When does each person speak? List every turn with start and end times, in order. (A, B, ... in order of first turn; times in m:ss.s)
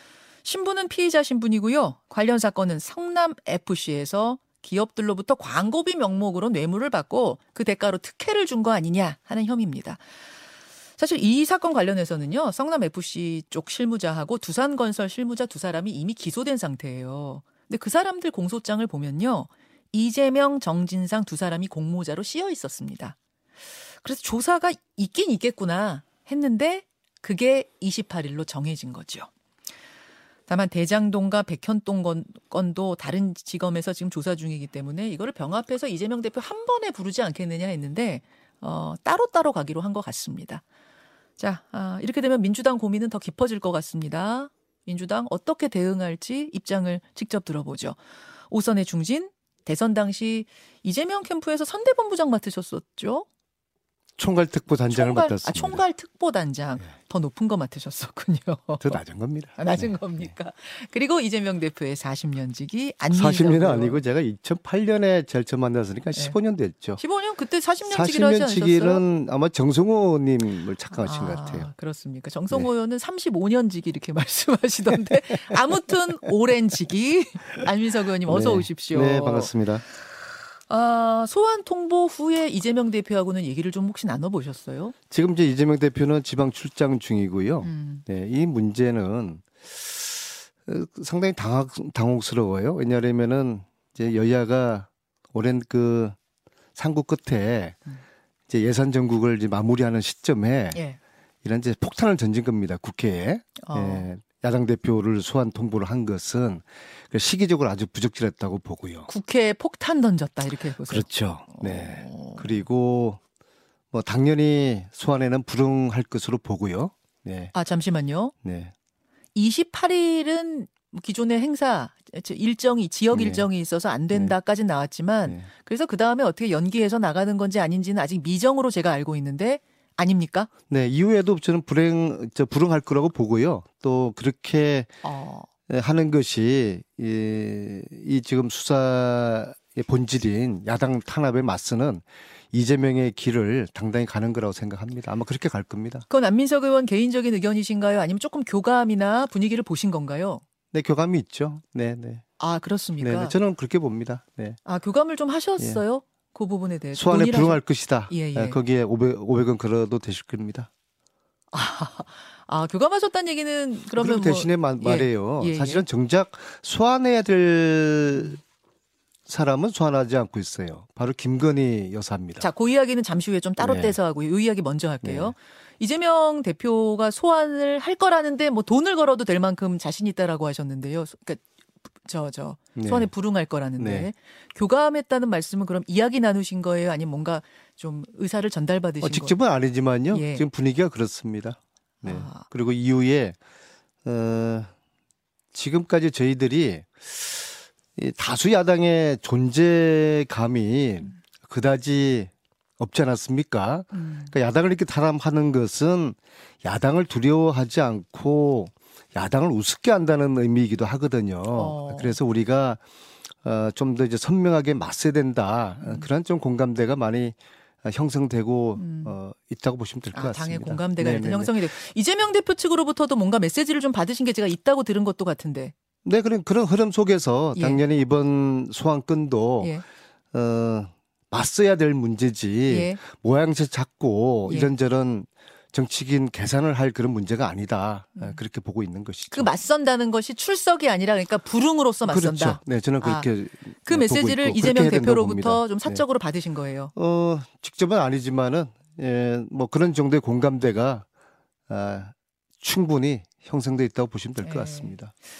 0:00.4-0:10.0 A
0:11.0-0:23.2 A
0:24.0-0:29.3 A
0:30.5-0:40.6 A
0:41.4-0:48.0 A
0:48.5-0:53.2 A
0:54.2-0:55.8 B
0:54.9-0:59.0 A
0:58.8-1:00.3 B
0:59.6-1:04.0 A
1:03.1-1:07.0 B
1:07.0-1:09.0 A
1:07.9-1:11.7 B
1:10.9-1:19.5 A
1:18.2-1:19.8 B
1:20.7-1:24.9 A
1:25.1-1:36.2 B
1:27.6-1:28.0 A
1:36.8-1:37.8 B
1:38.5-1:40.8 B
1:41.4-1:49.1 B
1:43.6-1:44.0 A
1:49.1-1:52.6 A
1:50.9-1:53.2 B
1:53.9-1:57.5 B
1:57.5-1:58.3 A
1:58.4-1:58.7 B
1:59.3-2:10.5 A
2:03.1-2:03.4 B
2:10.7-2:14.9 B
2:15.0-2:15.5 A
2:15.7-2:26.0 B
2:26.1-2:30.4 A
2:30.7-2:32.2 B
2:32.4-2:33.3 A
2:33.0-2:34.6 B
2:34.6-2:38.6 A
2:36.9-2:40.7 B
2:41.5-2:45.8 A
2:43.9-2:48.4 B
2:49.3-2:52.4 B
2:52.4-3:01.4 A
2:53.6-2:53.9 B
2:55.0-2:55.3 B
3:02.0-3:09.3 A
3:02.8-3:03.1 B
3:03.8-3:04.1 B
3:09.0-3:13.4 B
3:10.1-3:10.4 A
3:12.0-3:12.4 A
3:14.0-3:14.7 B
3:15.5-3:32.8 B
3:23.9-3:24.3 A
3:31.5-3:32.2 A
3:33.4-3:41.6 B
3:35.8-3:36.1 A
3:38.8-3:39.1 A
3:40.1-3:45.7 A
3:46.0-3:49.7 B
3:47.5-3:47.8 A
3:50.3-3:59.5 B
3:52.7-3:53.0 A
3:59.3-4:03.3 A
4:02.0-4:06.0 B
4:03.8-4:06.9 A
4:06.9-4:11.0 B
4:11.7-4:15.1 B
4:14.4-4:15.0 A